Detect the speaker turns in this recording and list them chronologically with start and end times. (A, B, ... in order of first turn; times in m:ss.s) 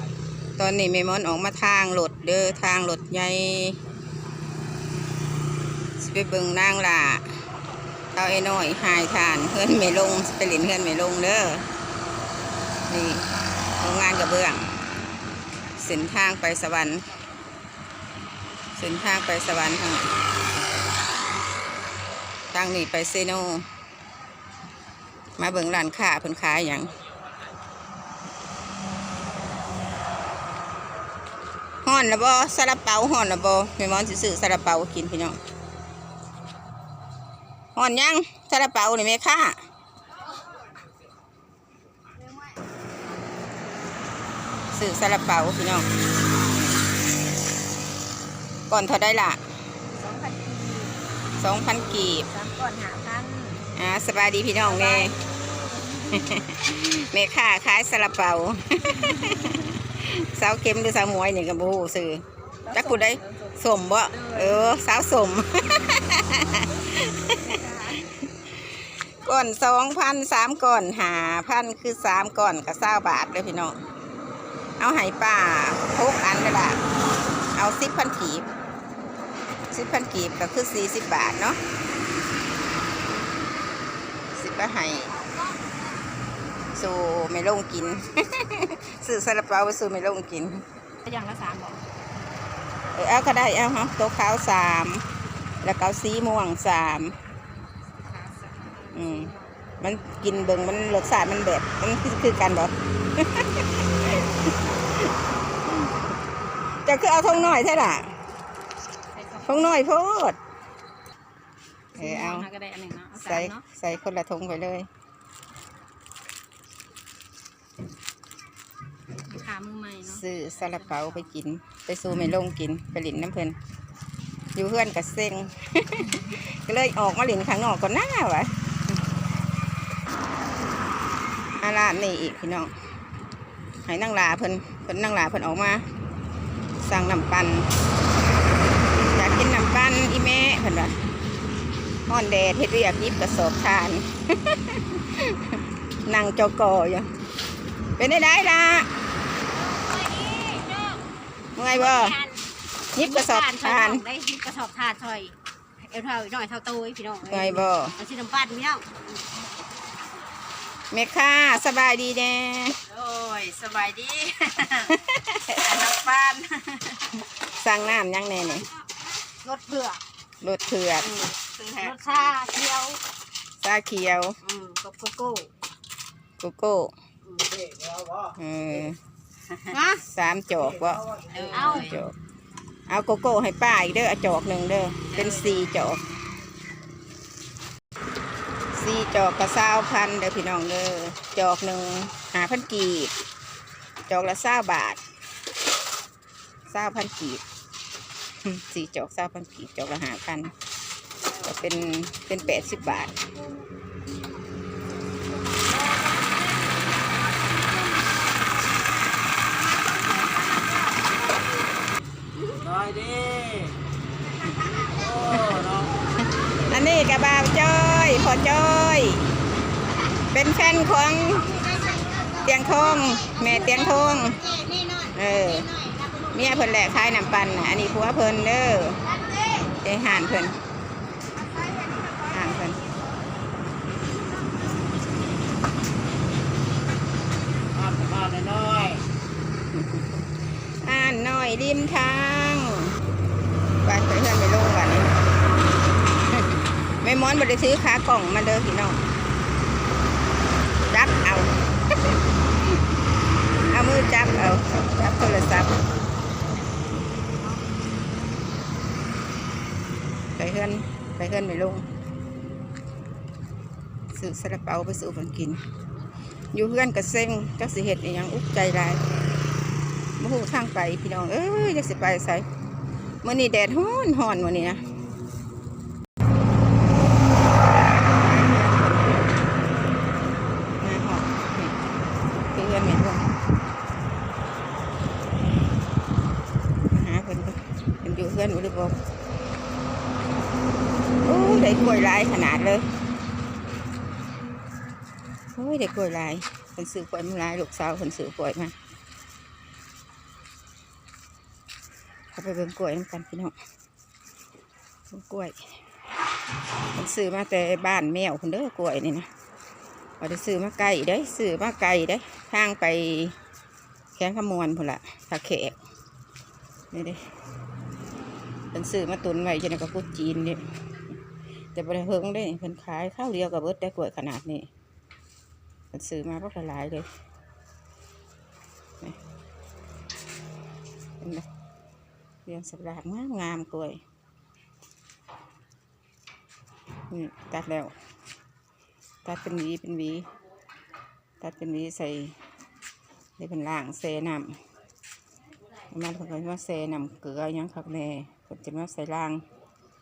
0:00.6-0:03.8 A
0:06.0-0:07.2 A
0:08.2-0:11.7 A
0:12.9-0:14.7 A
0:15.8-0:17.1 A
0:18.8-0:20.1 A
0:22.5-0:23.7 A
0:25.4-0:27.0 A
0:31.8-0:35.4 A
0:37.8-0:39.6 A
0:44.7-0:45.9 A
0:48.7-0:49.4 A
0:50.0-0:51.0 B
0:51.4-0:52.3 A
0:52.3-0:53.7 B
0:53.7-0:55.2 A
0:54.7-0:55.2 B
0:56.1-1:13.8 A
1:02.7-1:03.5 B
1:04.2-1:04.6 B
1:07.4-1:07.9 B
1:14.8-1:16.8 A
1:17.5-1:18.5 A
1:19.7-1:21.6 A
1:24.3-1:25.2 A
1:26.7-1:30.6 A
1:31.1-1:31.8 B
1:32.9-1:35.1 A
1:35.6-1:37.2 A
1:38.0-1:39.4 B
1:38.9-1:45.1 A
1:46.8-1:48.1 A
1:49.1-1:49.6 B
1:49.4-1:50.4 A
1:52.0-1:52.5 A
1:52.0-1:53.6 B
1:53.1-1:54.9 A
1:59.3-2:00.2 B
2:00.0-2:03.6 A
2:00.8-2:01.2 B
2:04.6-2:08.6 A
2:11.6-2:12.7 A
2:13.9-2:15.9 A
2:16.8-2:17.7 A
2:19.1-2:21.0 A
2:22.1-2:27.1 A
2:28.0-2:28.9 A
2:29.5-2:31.0 B
2:31.6-2:32.2 A
2:31.7-2:32.4 B
2:33.0-2:34.0 A
2:33.0-2:39.0 B
2:37.3-2:38.0 A
2:40.9-2:42.8 A
2:42.9-2:44.6 C
2:42.9-2:44.9 B
2:44.9-2:45.6 A
2:45.6-2:47.0 B
2:46.0-2:46.7 C
2:47.4-2:48.7 A
2:49.4-2:50.0 B
2:50.4-2:51.3 A
2:51.0-2:53.0 B
2:51.6-2:52.3 C
2:53.6-2:54.4 A
2:54.4-2:55.5 B
2:56.4-2:56.9 A
2:57.3-2:58.3 C
2:58.3-2:59.0 A
2:59.7-3:00.0 B
3:00.0-3:02.2 A
3:01.2-3:01.7 C
3:01.4-3:02.0 B
3:02.9-3:06.0 A
3:08.7-3:13.1 A
3:14.1-3:15.0 A
3:16.7-3:17.4 A
3:18.4-3:20.5 A
3:21.4-3:23.2 A
3:32.5-3:33.8 C
3:34.8-3:35.9 C
3:36.7-3:39.3 A
3:40.3-3:41.7 A
3:42.3-3:45.8 A
3:46.3-3:49.1 A
3:49.7-3:50.6 A
3:52.2-3:52.8 A
3:57.7-3:59.0 C
3:59.7-4:00.1 A
4:00.8-4:03.0 A
4:03.8-4:05.2 A
4:07.0-4:09.0 A
4:10.9-4:11.6 A
4:13.7-4:15.8 A
4:20.4-4:21.9 A
4:24.1-4:25.6 A
4:26.5-4:29.0 A
4:30.2-4:32.5 A
4:33.2-4:34.8 A
4:38.0-4:39.3 A
4:40.8-4:41.8 A
4:42.5-4:43.3 A
4:46.9-4:49.0 A
4:51.2-4:52.9 A
4:55.6-4:58.8 A
5:02.3-5:03.5 A
5:05.1-5:05.6 A
5:06.9-5:09.3 A
5:10.2-5:13.4 A
5:14.2-5:15.8 A
5:16.9-5:17.2 A
5:18.7-5:20.7 A
5:21.7-5:24.7 A
5:25.9-5:27.1 A
5:31.2-5:31.5 A
5:32.5-5:34.0 A
5:37.1-5:37.9 A
5:39.2-5:40.3 A
5:41.4-5:42.4 A
5:43.4-5:44.6 A
5:45.9-5:49.4 A